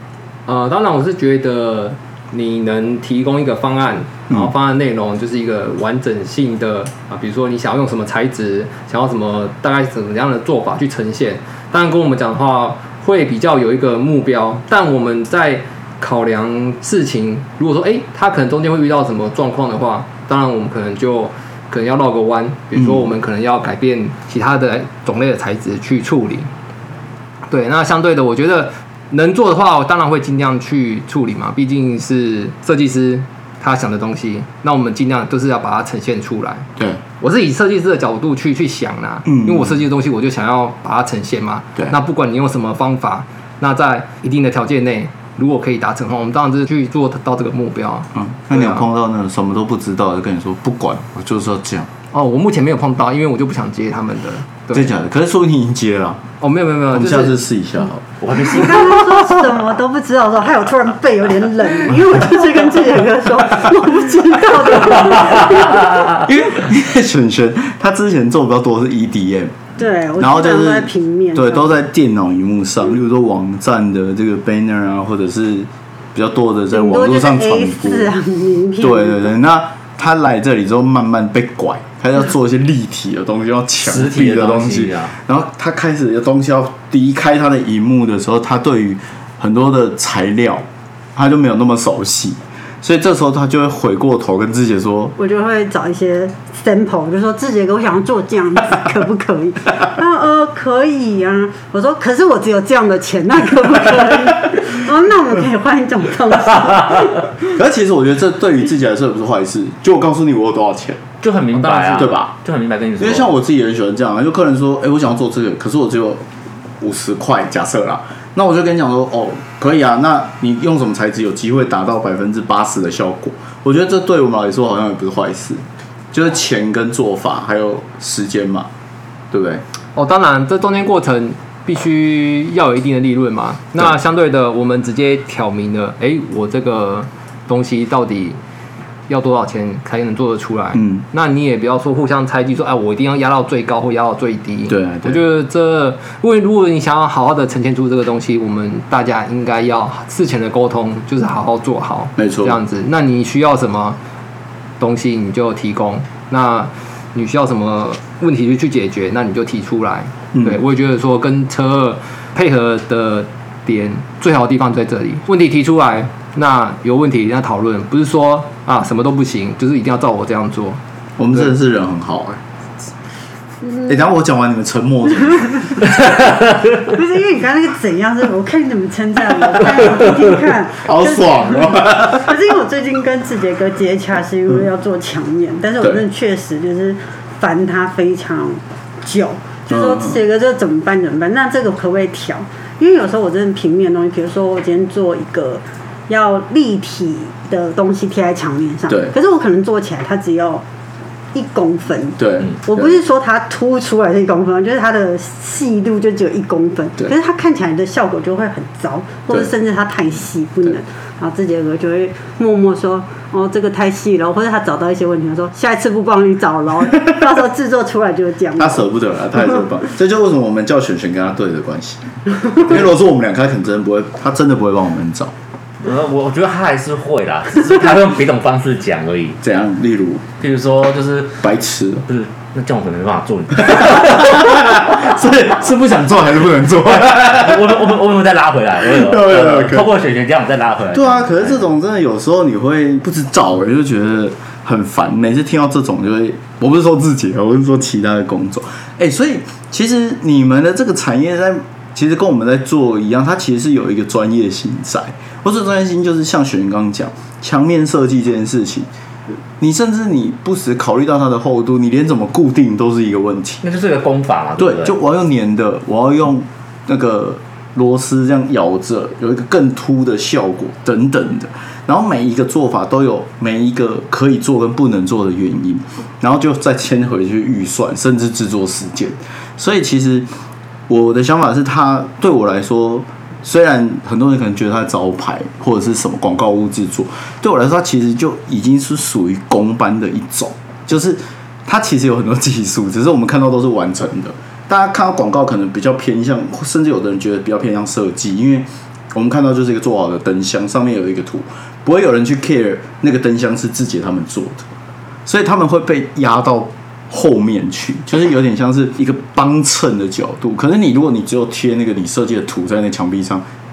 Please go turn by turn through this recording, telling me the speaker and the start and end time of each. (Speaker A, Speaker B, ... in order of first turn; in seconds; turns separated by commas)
Speaker A: 0.5-26.5, Speaker B: 22.7-23.1, Speaker A: 27.5-36.7, Speaker A: 37.2-48.9, Speaker B: 39.3-39.8, Speaker B: 48.1-51.9, Speaker A: 52.1-54.9, Speaker B: 54.7-56.2, Speaker A: 56.4-57.4, Speaker B: 56.9-58.8, Speaker C: 58.2-59.2, Speaker D: 58.5-66.1, Speaker B: 66.2-69.6, Speaker D: 69.8-71.8, Speaker B: 70.2-78.1, Speaker D: 76.7-79.3, Speaker B: 78.8-90.6, Speaker C: 83.8-85.1, Speaker B: 91.2-95.2, Speaker D: 95.2-107.3, Speaker B: 107.5-111.0, Speaker C: 111.2-113.3, Speaker A: 111.6-112.1, Speaker B: 111.6-112.3, Speaker B: 113.0-116.2, Speaker B: 116.8-128.7, Speaker B: 129.3-129.6, Speaker A: 129.9-138.4, Speaker A: 139.1-154.0, Speaker B: 140.8-141.0, Speaker B: 144.7-145.2, Speaker B: 152.2-152.6, Speaker A: 154.8-170.8, Speaker B: 160.3-160.6, Speaker B: 171.2-172.4, Speaker B: 173.8-176.2, Speaker D: 176.8-200.7, Speaker B: 180.8-182.3, Speaker B: 189.7-190.2, Speaker B: 198.9-199.2, Speaker D: 201.3-218.8, Speaker B: 202.2-203.0, Speaker B: 218.6-225.3, Speaker C: 225.8-229.4, Speaker B: 229.4-230.2, Speaker C: 230.4-231.4, Speaker B: 231.4-232.1, Speaker C: 232.1-235.0, Speaker B: 233.6-237.8, Speaker C: 236.8-241.7, Speaker B: 238.8-239.9, Speaker B: 240.9-258.9, Speaker B: 259.6-263.6, Speaker C: 263.6-264.9, Speaker B: 264.6-280.3, Speaker B: 280.9-304.7, Speaker B: 305.3-313.4